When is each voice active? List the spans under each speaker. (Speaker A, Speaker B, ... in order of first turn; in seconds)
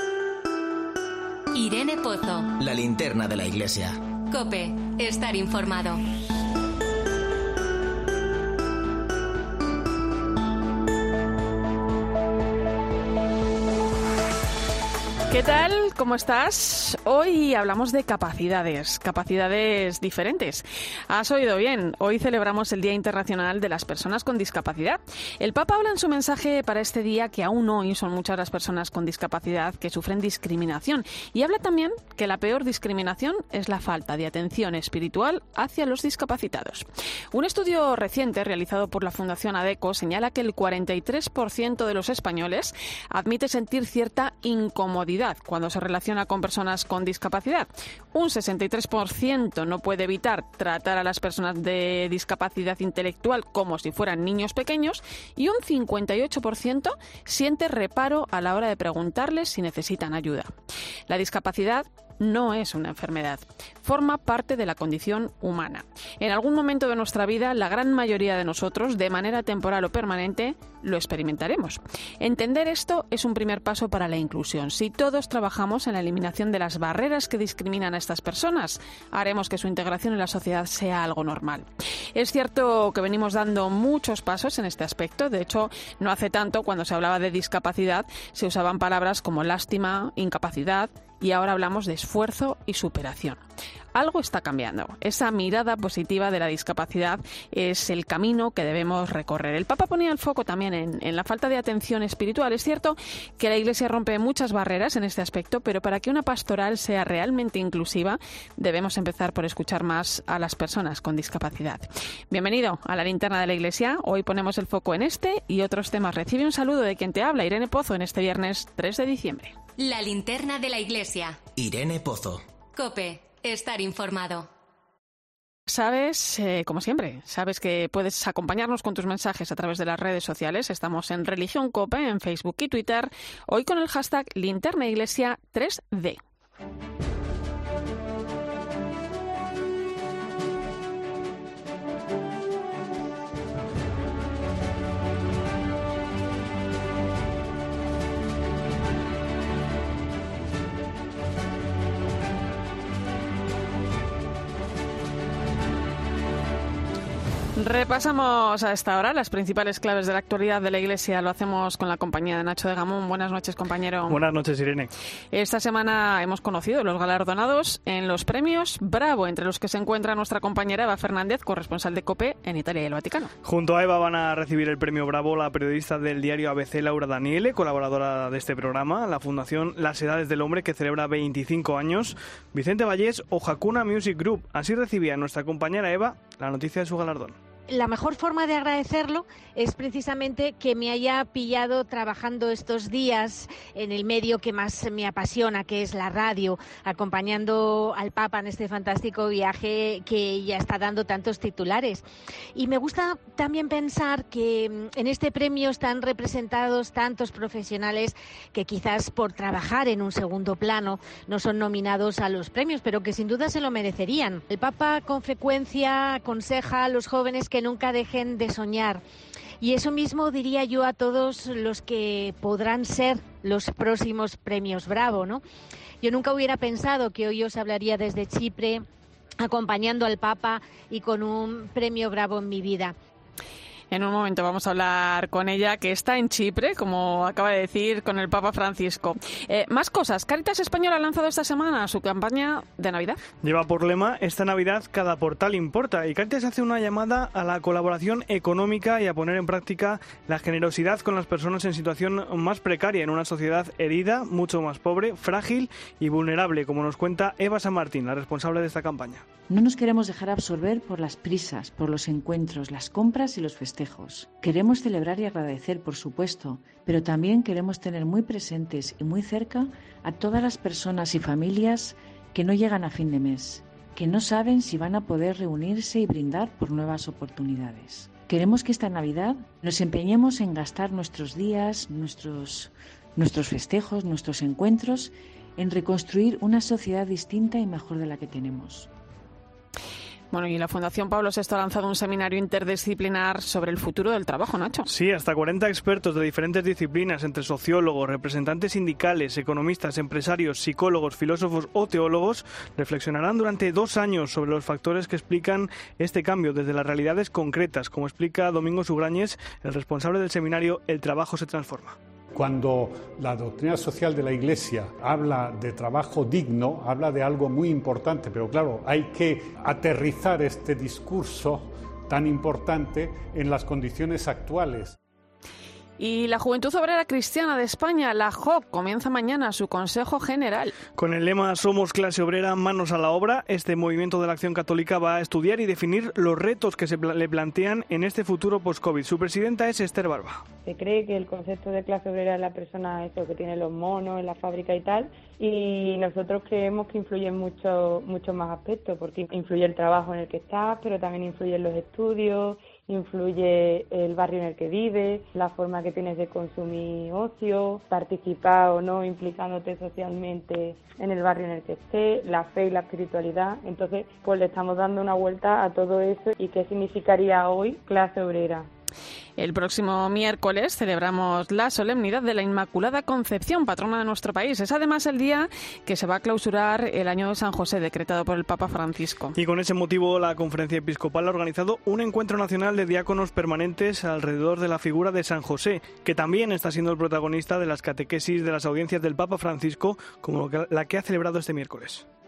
Speaker A: 1.5-2.5, 4.3-6.0, 119.8-121.4, 122.8-124.5
Speaker B: 2.6-4.0, 121.6-122.4
Speaker C: 15.3-60.5, 61.1-93.4, 93.9-119.5, 125.7-136.2, 157.6-164.2, 165.3-173.3, 233.9-243.2, 290.3-294.9, 326.0-330.8, 369.4-379.4
Speaker D: 164.1-164.9, 173.4-187.4, 243.4-259.2, 294.9-312.0, 331.0-340.5, 379.4-392.1
Speaker E: 187.7-202.0, 202.6-219.0, 219.6-225.4, 226.0-228.8, 229.4-232.9
Speaker F: 259.5-288.9
Speaker G: 312.3-325.0
Speaker H: 340.7-368.7